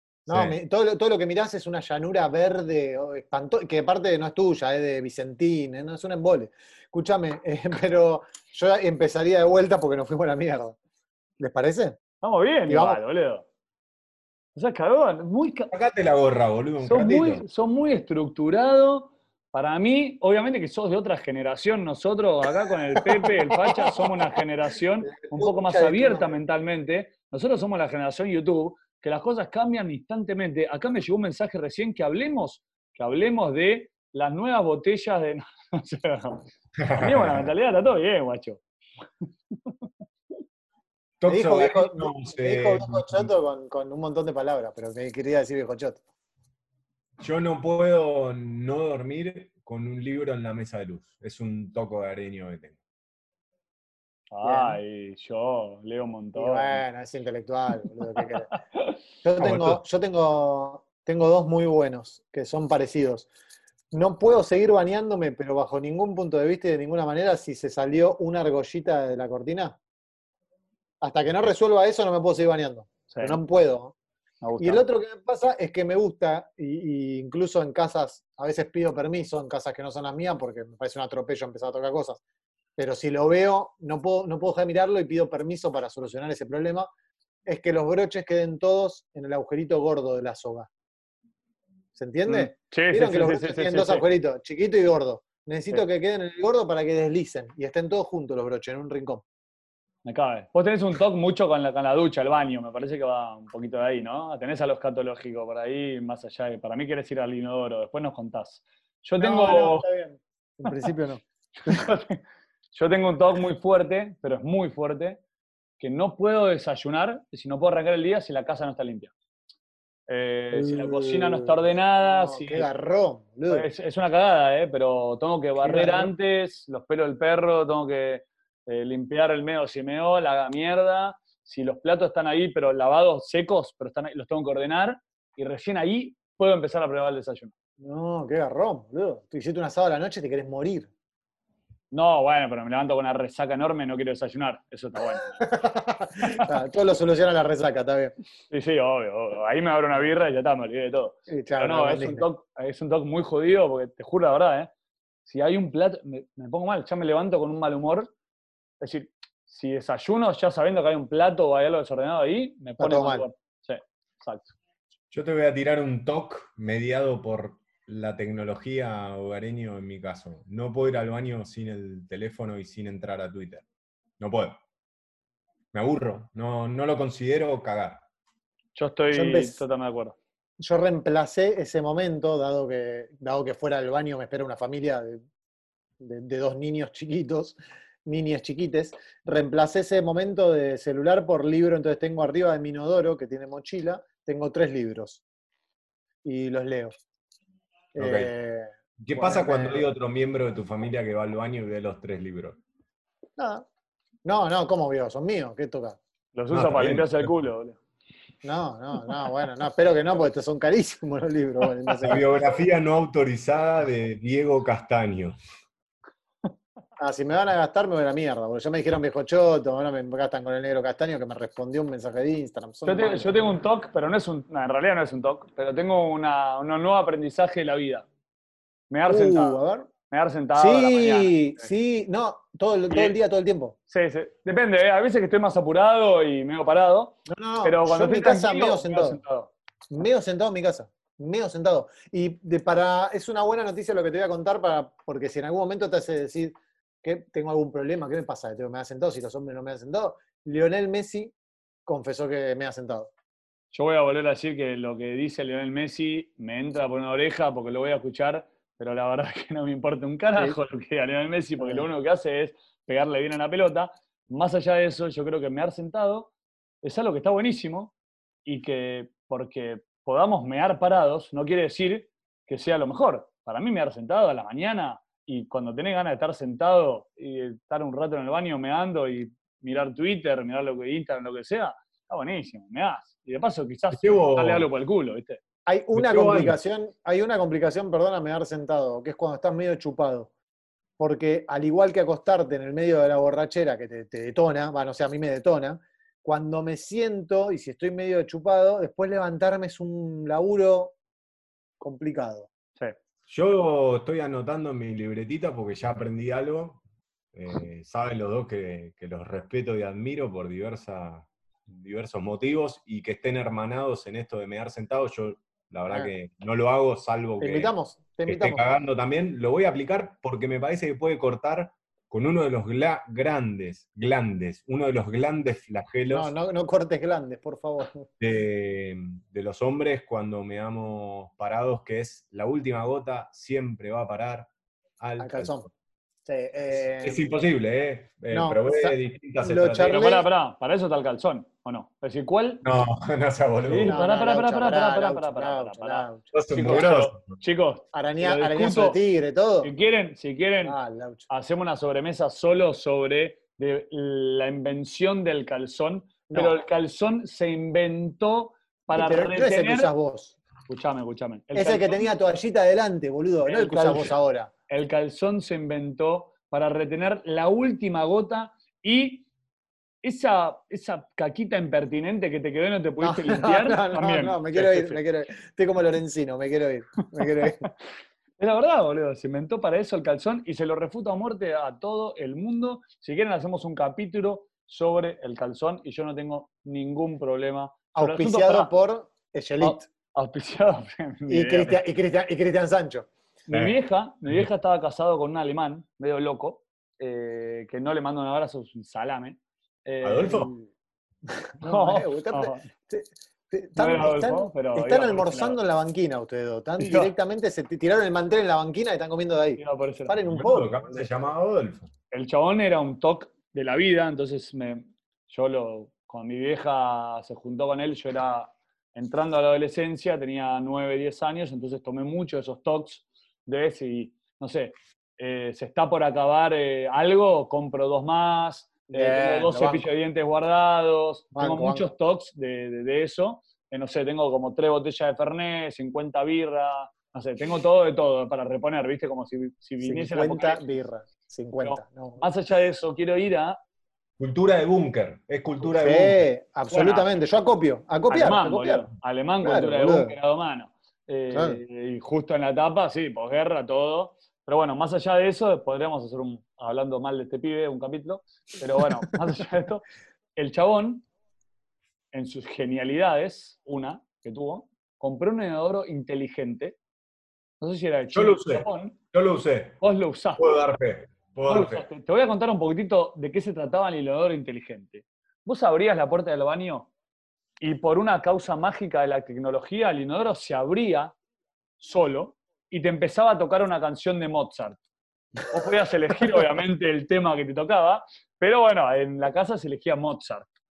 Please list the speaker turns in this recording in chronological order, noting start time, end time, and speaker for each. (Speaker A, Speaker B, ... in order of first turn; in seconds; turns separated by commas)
Speaker A: 0.3-10.8, Speaker B: 0.3-0.6, Speaker A: 11.4-12.0, Speaker C: 12.2-13.4, Speaker A: 12.7-13.0, Speaker C: 14.6-15.7, Speaker B: 15.7-17.4, Speaker C: 16.8-36.4, Speaker A: 23.2-24.1, Speaker A: 25.1-26.4, Speaker B: 36.8-37.5, Speaker C: 37.0-38.6, Speaker B: 41.2-43.3, Speaker A: 41.3-46.0, Speaker B: 47.2-52.8, Speaker C: 54.3-56.8, Speaker A: 54.4-54.8, Speaker A: 56.4-58.5, Speaker C: 58.2-59.0, Speaker A: 59.2-63.3, Speaker B: 59.4-59.8, Speaker A: 63.9-69.8, Speaker A: 71.0-74.0, Speaker C: 73.1-73.4, Speaker C: 74.4-74.8, Speaker A: 74.6-82.2, Speaker A: 82.8-86.9, Speaker A: 87.5-90.7, Speaker A: 92.0-99.2, Speaker C: 92.3-94.0, Speaker C: 100.0-109.8, Speaker A: 109.2-111.8, Speaker C: 110.7-110.9, Speaker C: 111.7-112.2, Speaker C: 112.7-115.2, Speaker C: 115.8-119.1, Speaker C: 120.1-122.7, Speaker A: 120.5-123.7, Speaker C: 123.5-137.5, Speaker A: 125.6-126.1, Speaker A: 137.8-140.9, Speaker C: 141.9-145.3, Speaker A: 145.2-148.2, Speaker C: 148.5-154.7, Speaker A: 151.3-152.3, Speaker C: 155.2-158.1, Speaker C: 158.8-164.6, Speaker A: 162.8-163.2, Speaker B: 165.1-173.7, Speaker B: 174.2-174.6, Speaker B: 175.7-178.0, Speaker C: 178.8-180.2, Speaker A: 179.1-179.6, Speaker A: 180.6-185.2, Speaker A: 186.0-195.2, Speaker A: 196.2-197.0, Speaker A: 197.9-199.9, Speaker B: 198.0-198.3, Speaker B: 199.0-202.6, Speaker A: 203.4-203.7, Speaker A: 204.2-206.0, Speaker C: 206.3-207.8, Speaker B: 206.5-207.3, Speaker A: 208.4-212.3, Speaker B: 212.1-215.4, Speaker A: 217.0-223.4, Speaker C: 222.8-228.1, Speaker C: 228.9-229.6, Speaker A: 229.1-229.9, Speaker C: 230.1-231.7, Speaker A: 230.6-233.8, Speaker C: 232.9-233.2, Speaker C: 233.9-239.5, Speaker A: 237.3-239.2, Speaker A: 239.9-251.3, Speaker A: 251.9-253.1, Speaker C: 253.7-266.3, Speaker A: 261.6-261.9, Speaker C: 266.8-267.9, Speaker C: 268.4-285.4, Speaker B: 283.9-284.7, Speaker A: 285.7-290.3, Speaker B: 285.9-286.6, Speaker A: 291.0-300.9, Speaker A: 301.8-302.5, Speaker B: 303.3-306.8, Speaker B: 307.3-317.7, Speaker A: 317.4-318.6, Speaker B: 318.3-326.3, Speaker A: 326.1-328.1, Speaker B: 328.2-334.5, Speaker B: 335.0-335.7, Speaker A: 335.2-335.7, Speaker A: 336.3-337.2, Speaker B: 336.7-340.0, Speaker A: 338.3-340.3, Speaker C: 339.8-342.6, Speaker B: 342.6-344.1, Speaker C: 343.6-349.0, Speaker A: 343.9-346.8, Speaker B: 346.3-347.4, Speaker A: 347.9-349.7, Speaker C: 349.6-350.8, Speaker A: 350.6-351.3, Speaker C: 351.3-359.9, Speaker A: 356.3-356.6, Speaker A: 358.9-360.4, Speaker C: 360.7-362.1, Speaker A: 361.5-364.5, Speaker C: 363.4-364.2, Speaker C: 364.7-369.3, Speaker C: 370.0-375.0, Speaker A: 373.0-377.6, Speaker C: 378.4-388.7, Speaker A: 387.9-389.9, Speaker C: 389.6-391.8, Speaker A: 391.3-393.1, Speaker C: 393.5-400.5, Speaker B: 393.5-394.5, Speaker B: 400.0-400.5, Speaker A: 401.6-411.1, Speaker C: 401.6-402.7, Speaker C: 403.8-405.6, Speaker C: 406.8-407.1, Speaker C: 409.6-410.3, Speaker B: 410.3-411.9, Speaker C: 412.1-440.6, Speaker A: 428.9-429.9, Speaker A: 431.4-431.9, Speaker A: 439.8-442.3, Speaker C: 441.6-443.6, Speaker B: 444.2-446.3, Speaker A: 445.6-448.9, Speaker C: 446.7-447.1, Speaker C: 448.1-461.1, Speaker A: 449.4-450.2, Speaker A: 451.3-451.6, Speaker C: 462.1-466.8, Speaker C: 467.6-469.0, Speaker B: 468.1-469.8, Speaker C: 469.8-470.6, Speaker B: 470.4-471.9, Speaker C: 471.5-476.9, Speaker C: 477.6-481.1, Speaker C: 481.8-484.8, Speaker C: 485.5-490.5